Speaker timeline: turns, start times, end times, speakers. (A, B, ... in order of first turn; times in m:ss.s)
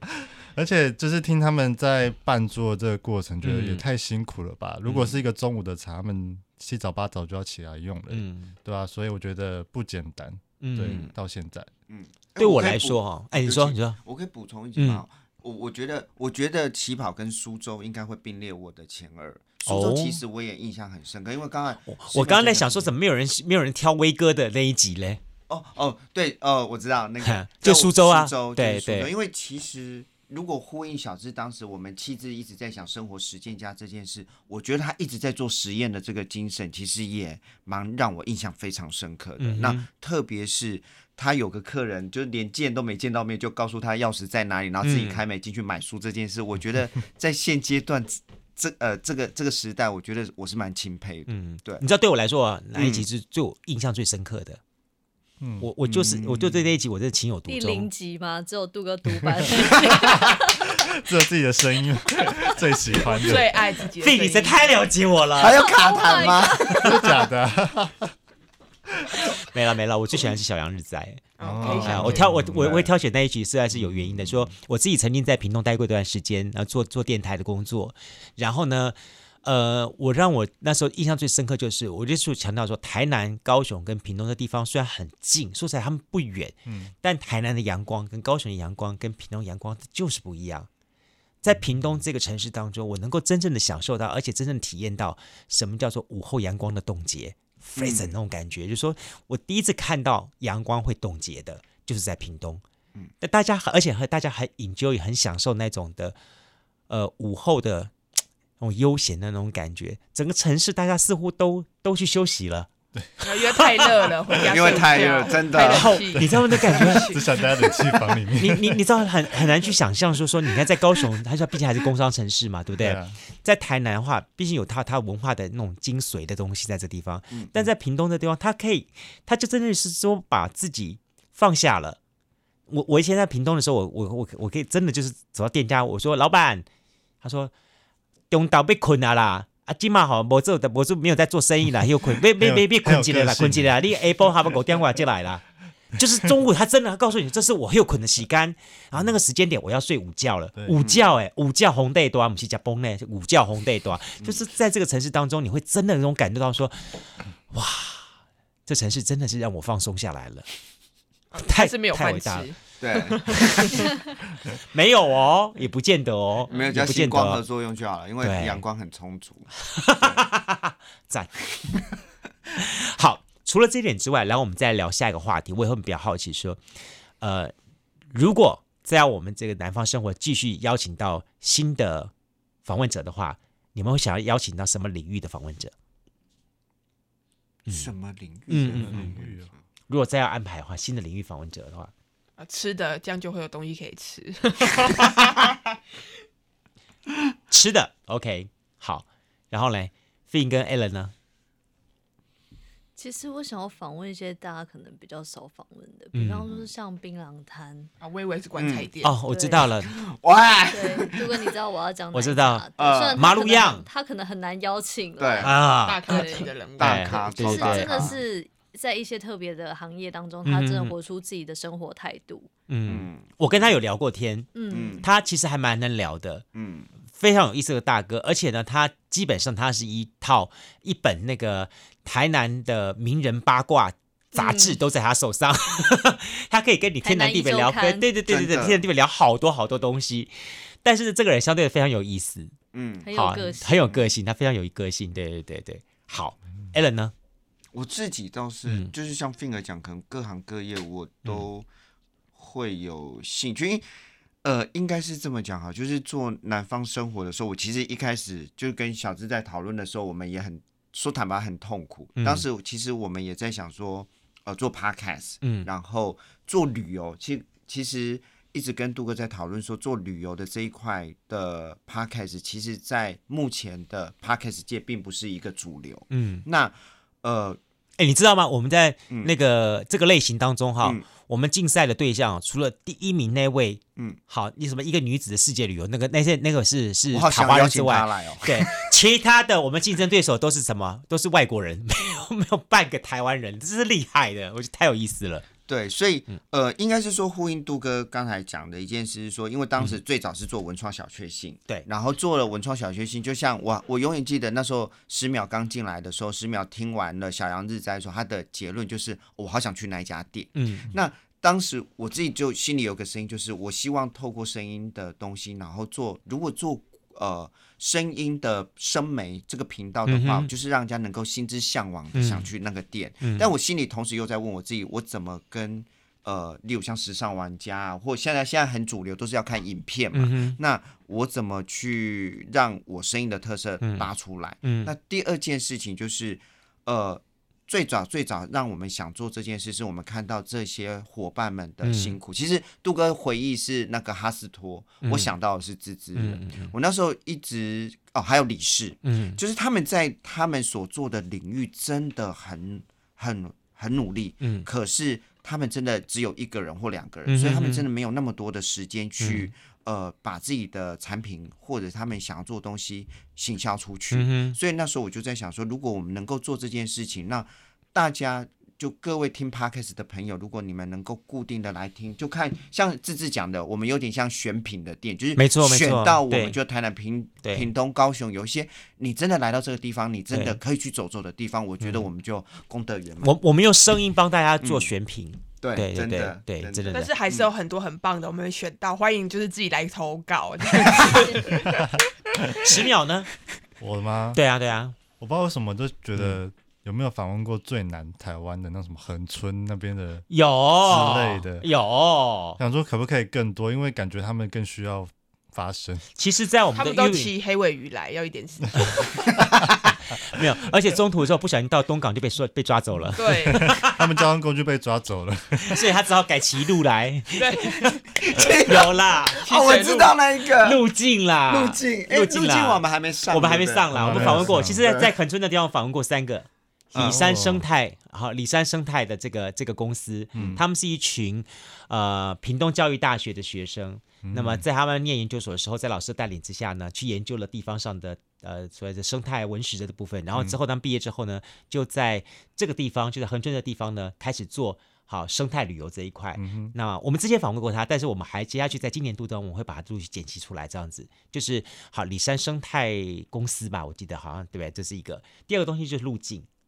0:00.2-0:11.7 A
0:03.4-0:03.8 B
0:04.8-0:05.2 B
0:08.1-0:08.5 B
0:10.6-0:11.1 B
0:11.9-0:22.9 C
0:12.4-0:14.0 B
0:14.8-0:15.0 B
0:19.6-0:20.2 B
0:21.9-0:25.2 B
0:25.5-0:51.8 C
0:27.2-0:29.1 B
0:39.4-0:39.9 B
0:44.8-0:45.2 B
0:51.3-0:54.6 B
0:52.7-0:53.0 C
0:55.4-0:55.7 A
0:55.6-0:57.9 B
0:55.8-0:56.6 C
0:57.5-1:00.7 D
0:59.2-1:03.6 A
1:03.0-1:04.6 E
1:04.0-1:05.6 B
1:05.4-1:07.2 C
1:05.5-1:07.2 D
1:06.8-1:08.1 A
1:09.0-1:09.2 A
1:09.4-1:30.7 B
1:11.4-1:12.3 E
1:11.4-1:12.9 A
1:26.6-1:26.9 A
1:31.4-1:42.6 B
1:37.8-1:38.1 C
1:43.2-1:46.1 B
1:46.9-1:47.9 B
1:48.6-1:52.7 B
1:53.2-1:57.8 E
1:53.2-1:54.0 B
1:54.5-1:56.1 C
1:55.5-1:57.2 B
1:56.2-1:58.8 A
1:58.3-2:12.0 B
2:02.8-2:03.2 A
2:07.3-2:07.6 C
2:12.7-2:16.6 B
2:17.2-2:17.5 B
2:18.3-2:37.0 B
2:22.4-2:23.8 A
2:30.5-2:30.8 A
2:37.5-2:38.1 B
2:38.6-2:40.4 B
2:41.3-2:43.9 E
2:41.4-2:42.5 B
2:42.8-2:43.2 C
2:43.3-2:43.9 B
2:44.5-2:47.4 B
2:46.5-2:50.2 C
2:48.2-2:48.6 B
2:49.6-2:51.3 B
2:52.6-2:56.6 B
2:57.2-2:57.5 B
2:58.1-3:02.1 B
3:02.6-3:05.7 B
3:07.7-3:09.5 C
3:08.5-3:09.2 B
3:08.6-3:09.5 A
3:09.9-3:11.9 B
3:12.4-3:15.5 E
3:17.5-3:21.1 B
3:23.0-3:27.9 D
3:26.1-3:26.6 B
3:28.0-3:29.2 E
3:28.6-3:28.9 C
3:29.0-3:29.9 B
3:29.3-3:29.7 D
3:29.8-3:31.5 C
3:30.7-3:36.5 D
3:32.1-3:33.8 B
3:32.8-3:33.3 C
3:35.2-3:35.6 C
3:35.4-3:38.2 B
3:35.7-3:37.0 E
3:36.8-3:38.2 C
3:37.1-3:42.5 D
3:40.4-3:40.9 B
3:42.7-3:46.4 B
3:42.9-3:43.3 C
3:44.5-3:45.0 D
3:44.7-3:45.1 C
3:46.5-3:46.9 C
3:47.2-4:02.5 B
3:54.3-3:54.8 D
3:57.0-3:58.1 D
3:58.3-3:58.8 C
4:02.7-4:03.1 C
4:03.0-4:03.8 D
4:03.1-4:07.1 B
4:07.7-4:11.6 C
4:08.6-4:08.9 B
4:12.3-4:13.8 C
4:14.4-4:37.6 C
4:22.2-4:22.4 B
4:25.4-4:25.7 B
4:36.1-4:36.4 B
4:38.0-4:55.5 B
4:40.8-4:41.0 C
4:47.1-4:48.9 C
4:55.7-6:23.3 C
5:10.5-5:10.9 B
5:20.0-5:20.5 B
5:22.1-5:22.5 B
5:30.1-5:30.6 B
5:33.8-5:34.1 B
5:34.6-5:34.9 B
5:41.8-5:42.2 B
5:45.0-5:45.3 B
5:46.1-5:46.7 B
5:49.0-5:49.4 B
5:54.4-5:54.7 B
5:57.2-5:57.9 B
5:59.2-5:59.5 B
6:04.1-6:04.6 B
6:15.4-6:16.6 B
6:20.3-6:20.6 B
6:23.2-6:27.1 B
6:24.6-6:24.9 C
6:25.6-6:27.5 C
6:26.9-6:31.9 E
6:30.9-6:31.2 B
6:31.6-6:32.6 A
6:32.6-6:33.3 B
6:33.8-6:34.4 A
6:34.3-6:34.9 B
6:35.2-6:40.3 A
6:40.3-6:42.6 B
6:40.8-6:41.7 A
6:42.6-6:46.0 A
6:46.2-6:47.3 B
6:46.7-6:49.0 E
6:48.8-6:54.0 B
6:53.2-6:53.7 E
6:53.4-6:55.8 A
6:55.7-6:59.4 B
6:57.3-6:57.9 E
6:58.1-7:00.8 C
6:59.4-7:00.1 E
7:00.5-7:36.5 B
7:01.5-7:05.1 C
7:03.9-7:04.8 A
7:06.9-7:07.2 C
7:07.0-7:07.6 A
7:10.3-7:10.6 A
7:14.2-7:14.6 A
7:26.3-7:26.7 A